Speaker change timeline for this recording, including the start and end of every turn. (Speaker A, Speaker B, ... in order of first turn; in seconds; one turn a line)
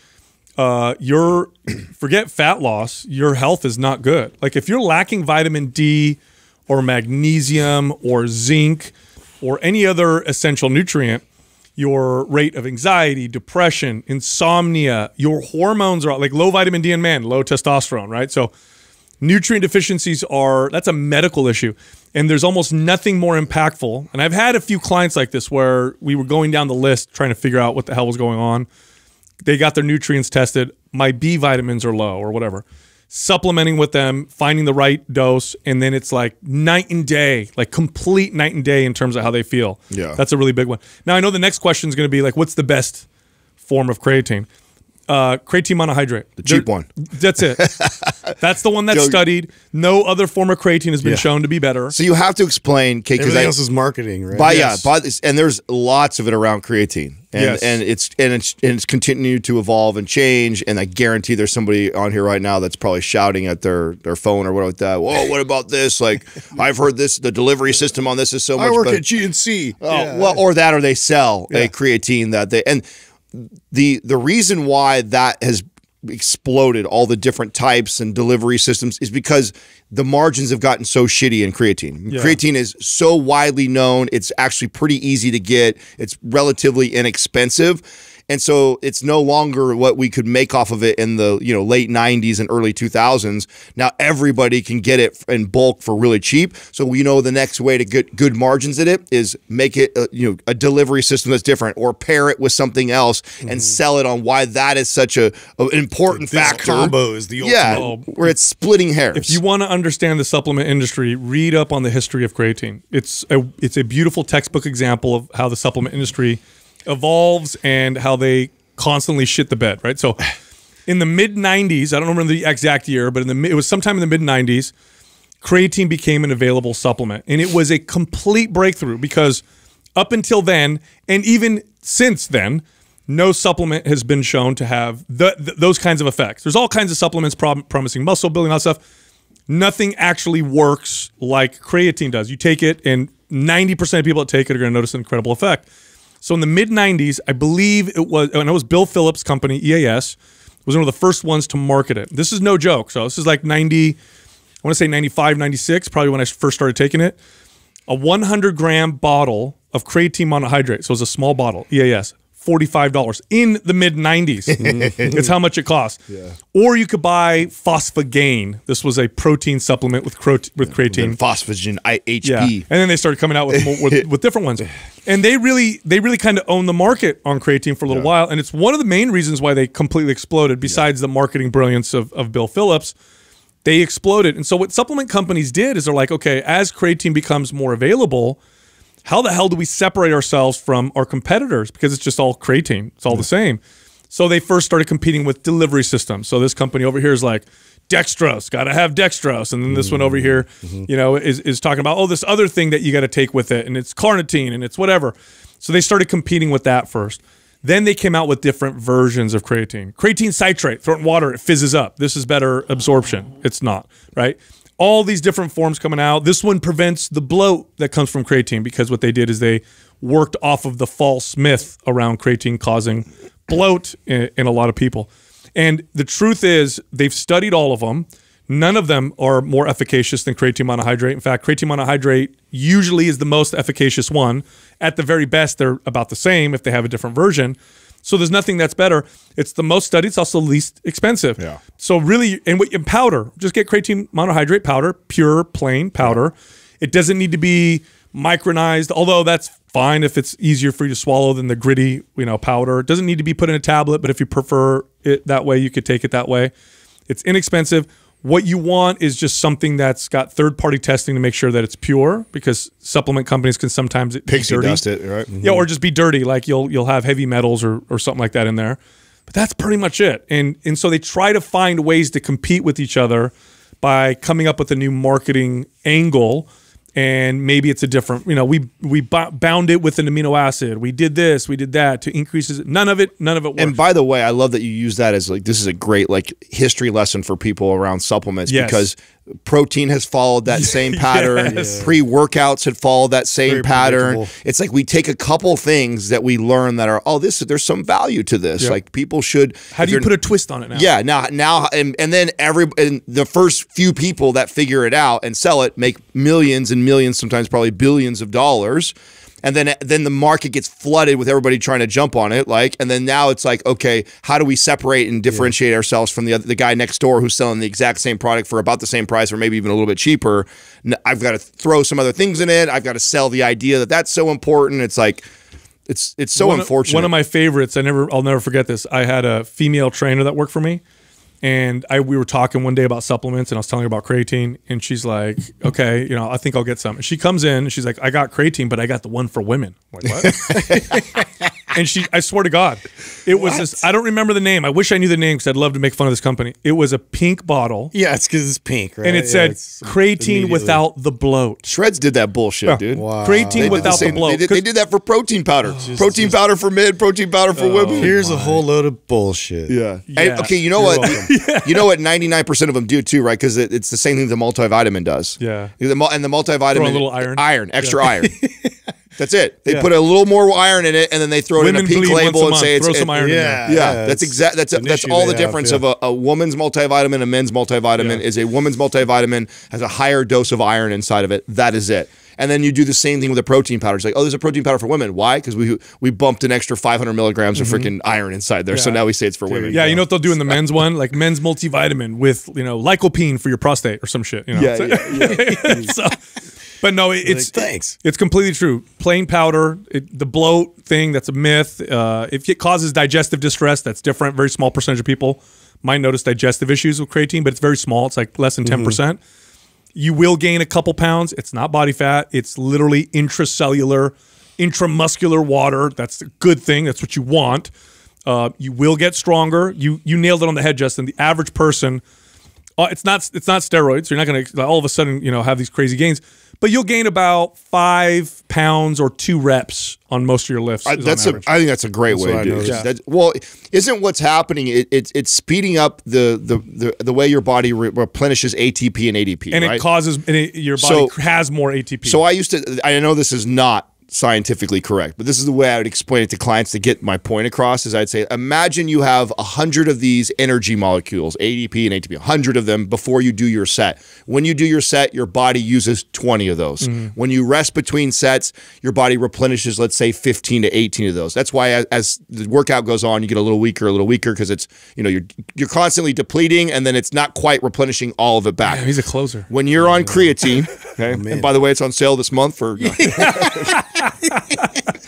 Speaker A: 0.6-11.2
Speaker A: 11.8-18.5
Speaker A: 19.2-28.7
Speaker A: 29.4-43.0
Speaker B: 39.9-40.2
Speaker A: 43.6-44.5
Speaker A: 45.1-47.7
Speaker B: 46.4-46.9
Speaker B: 47.6-48.3
Speaker A: 48.4-52.0
Speaker B: 48.9-49.2
Speaker C: 51.0-51.3
Speaker B: 51.9-53.5
Speaker C: 53.2-54.9
Speaker B: 54.3-69.0
Speaker A: 54.5-54.8
Speaker A: 57.4-57.8
Speaker C: 68.6-70.4
Speaker B: 69.8-109.4
Speaker A: 82.1-82.4
Speaker C: 103.5-103.8
Speaker C: 106.1-107.9
Speaker A: 107.7-108.3
Speaker A: 109.1-120.3
Speaker A: 120.9-124.7
Speaker A: 125.4-129.4
Speaker A: 130.0-138.8
Speaker A: 139.5-145.7
Speaker A: 146.2-154.0
Speaker A: 154.6-157.2
Speaker A: 157.9-166.0
Speaker C: 164.6-165.1
Speaker A: 166.5-171.2
Speaker B: 170.9-172.7
Speaker A: 172.2-182.9
Speaker B: 173.5-174.1
Speaker A: 183.6-188.4
Speaker A: 189.1-256.5
Speaker C: 199.7-200.9
Speaker A: 257.1-264.8
Speaker B: 264.3-265.3
Speaker C: 265.3-265.7
Speaker A: 265.4-268.8
Speaker A: 269.3-283.8
Speaker B: 283.6-300.1
Speaker A: 288.5-288.9
Speaker A: 290.5-291.9
Speaker C: 291.4-291.9
Speaker C: 293.5-294.3
Speaker A: 299.7-300.9
Speaker B: 300.7-325.3
Speaker B: 325.9-327.1
Speaker A: 326.4-330.8
Speaker A: 331.4-340.6
Speaker C: 340.2-341.5
Speaker A: 341.7-347.9
Speaker C: 343.4-343.6
Speaker C: 347.9-350.8
Speaker A: 349.0-351.6
Speaker B: 351.6-358.4
Speaker A: 352.7-354.6
Speaker C: 352.9-354.2
Speaker A: 355.7-356.1
Speaker C: 355.9-356.4
Speaker A: 357.6-358.3
Speaker C: 358.0-359.8
Speaker B: 359.7-368.4
Speaker A: 360.1-361.9
Speaker C: 360.8-361.3
Speaker A: 365.4-365.7
Speaker A: 366.7-368.0
Speaker C: 368.2-368.7
Speaker B: 369.2-373.1
Speaker A: 371.6-373.6
Speaker C: 373.2-375.8
Speaker B: 373.6-390.6
Speaker A: 378.0-378.2
Speaker A: 387.6-387.9
Speaker A: 388.7-389.0
Speaker C: 389.5-390.1
Speaker A: 389.7-396.2
Speaker B: 394.5-395.9
Speaker C: 395.6-395.9
Speaker A: 396.8-409.2
Speaker C: 397.2-398.0
Speaker C: 408.6-409.0
Speaker A: 409.9-417.7
Speaker A: 418.3-422.0
Speaker A: 422.8-431.4
Speaker B: 430.9-439.9
Speaker C: 432.1-432.8
Speaker A: 439.5-442.2
Speaker B: 440.8-441.1
Speaker B: 442.0-468.9
Speaker A: 456.8-457.1
Speaker A: 468.6-469.5
Speaker B: 469.5-473.8
Speaker C: 469.8-470.3
Speaker C: 471.1-471.5
Speaker C: 472.8-473.7
Speaker A: 473.1-474.9